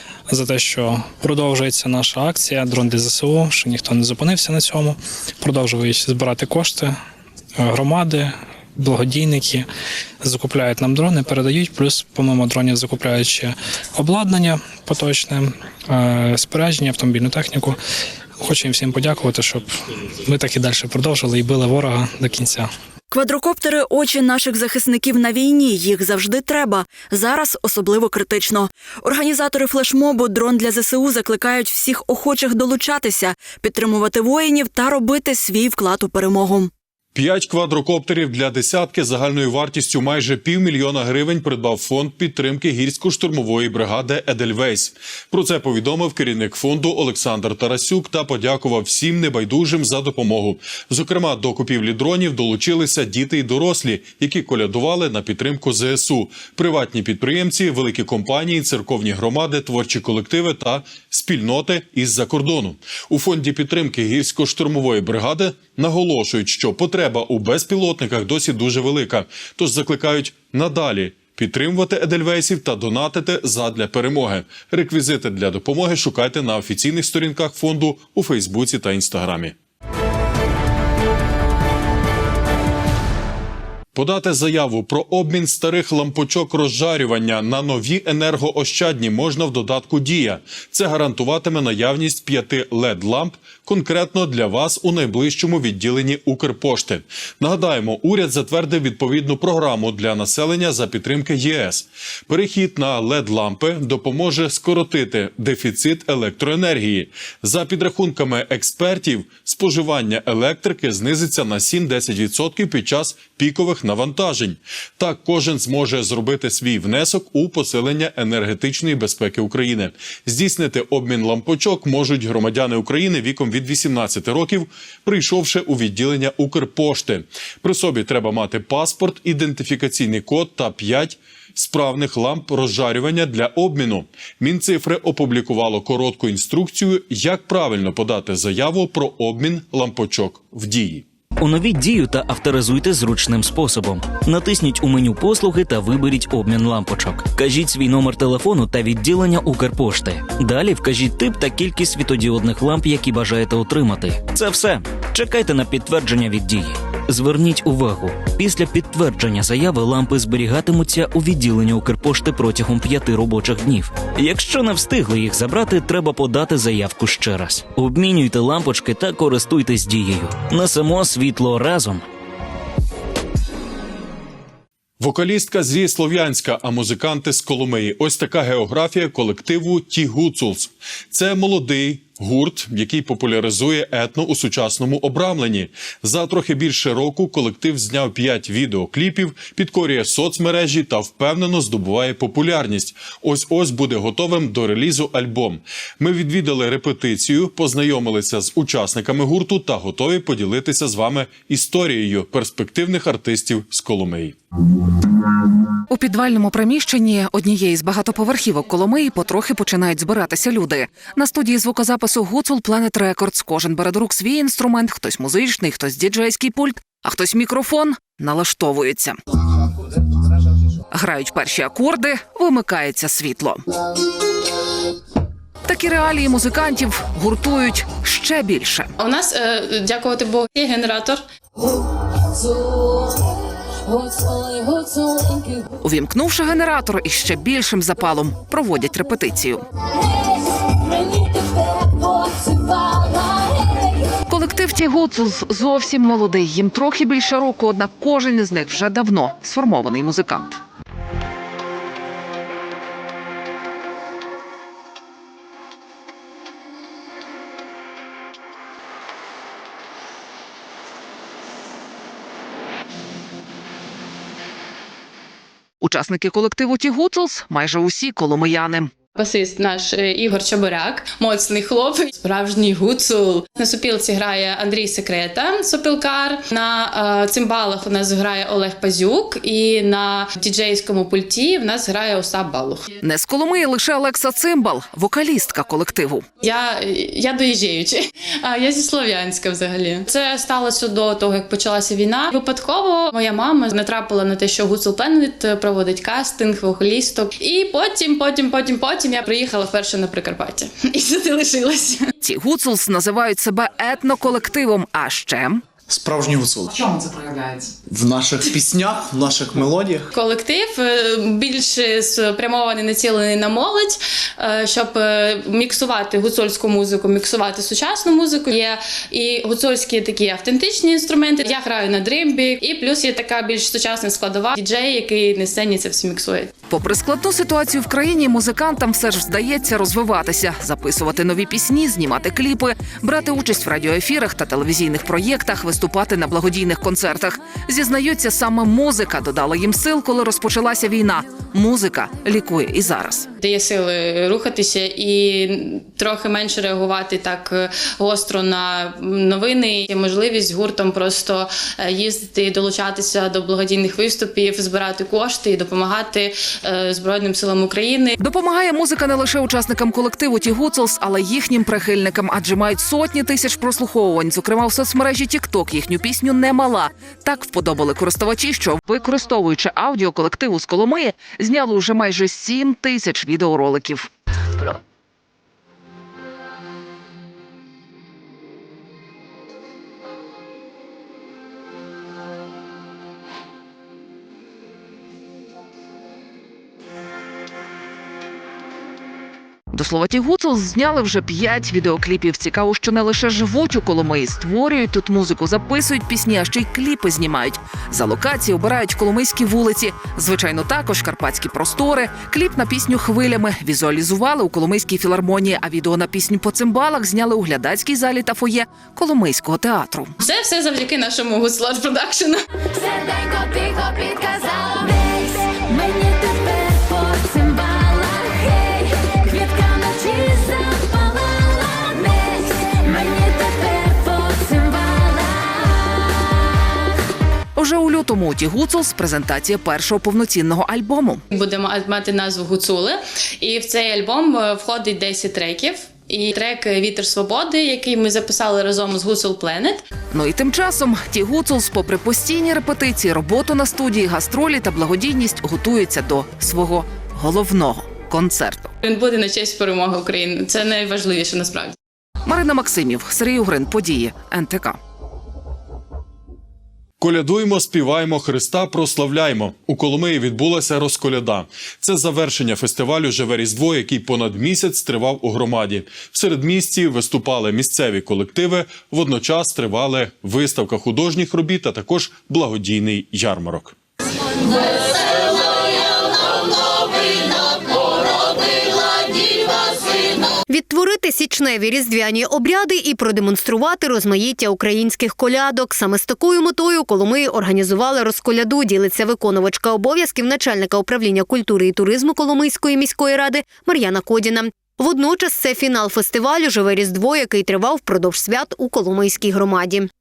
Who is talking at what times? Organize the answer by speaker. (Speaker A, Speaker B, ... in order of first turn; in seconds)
Speaker A: 0.3-6.9, 7.6-9.7, 10.2-17.8, 18.4-19.7, 20.2-22.7, 412.9-425.7
Speaker B: 23.1-36.7
Speaker C: 37.1-79.5, 83.9-141.0, 175.0-204.4, 457.0-473.8
Speaker D: 141.4-172.0
Speaker E: 205.9-219.2, 220.9-223.6, 225.7-228.9, 235.8-239.7, 244.2-250.6, 265.8-268.9, 283.0-286.2, 302.2-305.6, 326.7-343.3, 358.2-374.1, 389.7-410.1, 427.6-431.2, 440.1-448.7, 452.2-454.8
Speaker F: 229.0-231.2, 269.1-282.9, 286.4-302.1, 310.1-326.5, 343.4-358.1, 410.2-412.4, 431.3-439.8, 448.8-451.8
Speaker G: 305.9-306.7, 307.9-310.0
Speaker H: 480.5-499.9